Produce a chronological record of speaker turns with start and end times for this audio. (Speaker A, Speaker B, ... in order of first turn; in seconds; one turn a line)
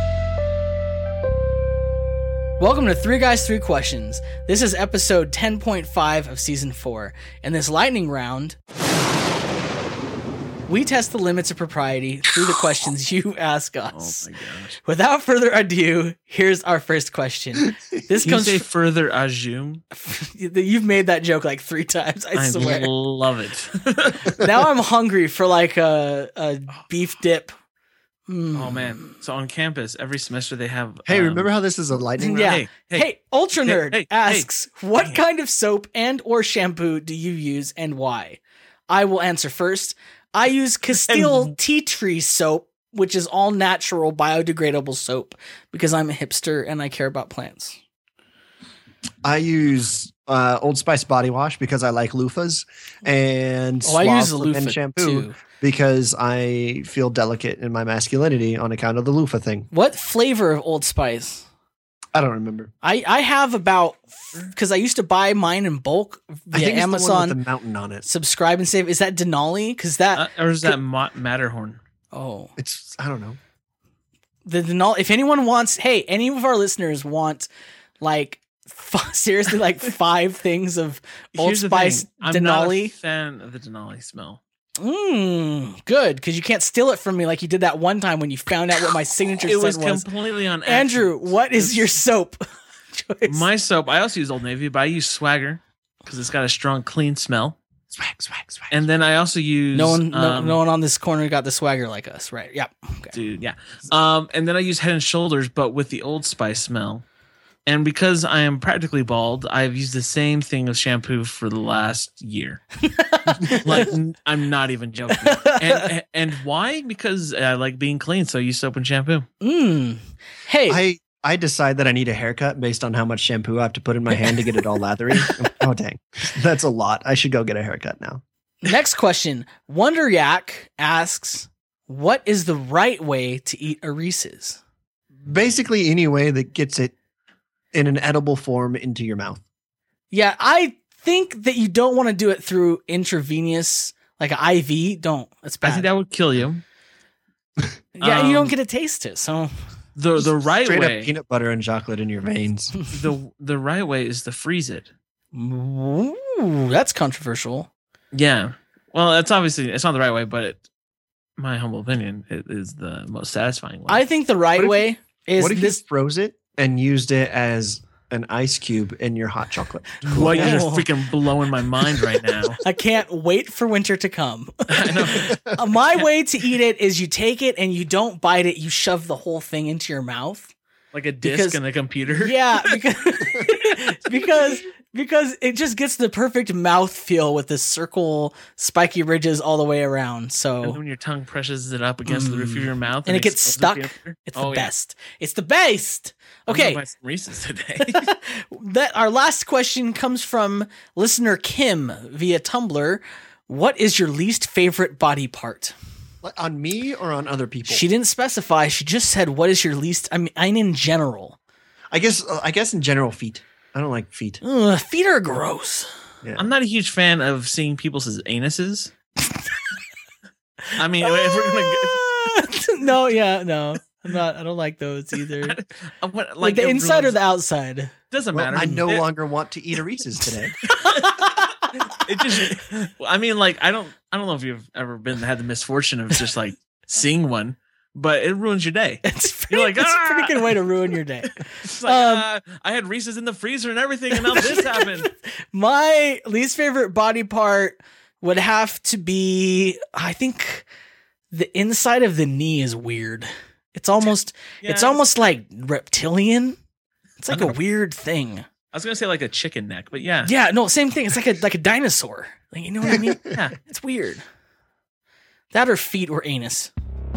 Speaker A: 2.6-8.6
Speaker A: 10.7-18.7
Speaker B: 13.9-14.8
Speaker B: 18.2-19.8
Speaker A: 19.9-22.9
Speaker B: 22.4-24.3
Speaker A: 24.3-27.5
Speaker A: 28.3-29.1
Speaker B: 28.6-31.5
Speaker C: 31.1-32.5
Speaker B: 32.1-33.1
Speaker A: 32.2-47.8
Speaker B: 33.6-35.2
Speaker B: 41.0-41.5
Speaker C: 49.2-59.7
Speaker A: 53.8-55.4
Speaker A: 59.7-61.5
Speaker C: 62.1-62.7
Speaker A: 62.8-67.4
Speaker C: 66.5-68.1
Speaker A: 68.0-70.8
Speaker B: 70.2-71.8
Speaker A: 72.1-72.5
Speaker C: 72.6-73.4
Speaker A: 74.5-77.5
Speaker A: 78.0-82.9
Speaker B: 81.4-84.4
Speaker A: 84.8-90.1
Speaker B: 89.4-92.0
Speaker A: 90.7-92.4
Speaker A: 92.9-93.5
Speaker B: 93.3-97.6
Speaker C: 97.9-98.8
Speaker B: 98.7-100.6
Speaker A: 99.7-103.1
Speaker B: 103.1-107.0
Speaker B: 107.7-112.7
Speaker A: 112.8-113.9
Speaker B: 113.3-119.3
Speaker A: 115.2-115.8
Speaker A: 119.4-120.8
Speaker C: 120.7-128.2
Speaker A: 128.6-134.6
Speaker C: 135.2-136.9
Speaker C: 137.7-139.4
Speaker A: 140.1-145.9
Speaker B: 145.6-146.6
Speaker A: 148.0-149.5
Speaker B: 148.0-148.6
Speaker B: 150.0-151.1
Speaker C: 150.6-152.8
Speaker B: 152.9-154.9
Speaker A: 155.3-157.7
Speaker B: 158.1-160.7
Speaker B: 161.4-164.0
Speaker A: 163.9-165.8
Speaker C: 164.6-170.6
Speaker B: 170.0-172.6
Speaker A: 170.2-170.9
Speaker A: 172.6-180.5
Speaker B: 174.7-175.4
Speaker C: 175.2-175.5
Speaker B: 180.9-182.7
Speaker A: 181.2-190.8
Speaker B: 190.6-194.7
Speaker A: 192.1-196.8
Speaker B: 196.5-198.1
Speaker A: 197.8-205.8
Speaker C: 206.2-207.9
Speaker A: 207.7-211.4
Speaker C: 211.9-214.4
Speaker A: 214.4-215.9
Speaker C: 216.2-216.5
Speaker B: 216.4-218.9
Speaker B: 220.7-222.0
Speaker A: 221.0-225.6
Speaker B: 225.4-227.2
Speaker A: 226.4-227.9
Speaker B: 228.1-229.1
Speaker C: 228.3-230.6
Speaker B: 230.6-240.7
Speaker A: 230.7-232.5
Speaker A: 239.0-242.2
Speaker B: 241.2-245.1
Speaker A: 244.1-250.7
Speaker A: 251.3-256.6
Speaker B: 254.6-255.0
Speaker A: 257.2-258.5
Speaker B: 257.3-257.6
Speaker B: 258.7-260.3
Speaker A: 260.2-264.2
Speaker C: 262.8-263.4
Speaker B: 263.3-263.6
Speaker A: 265.5-266.7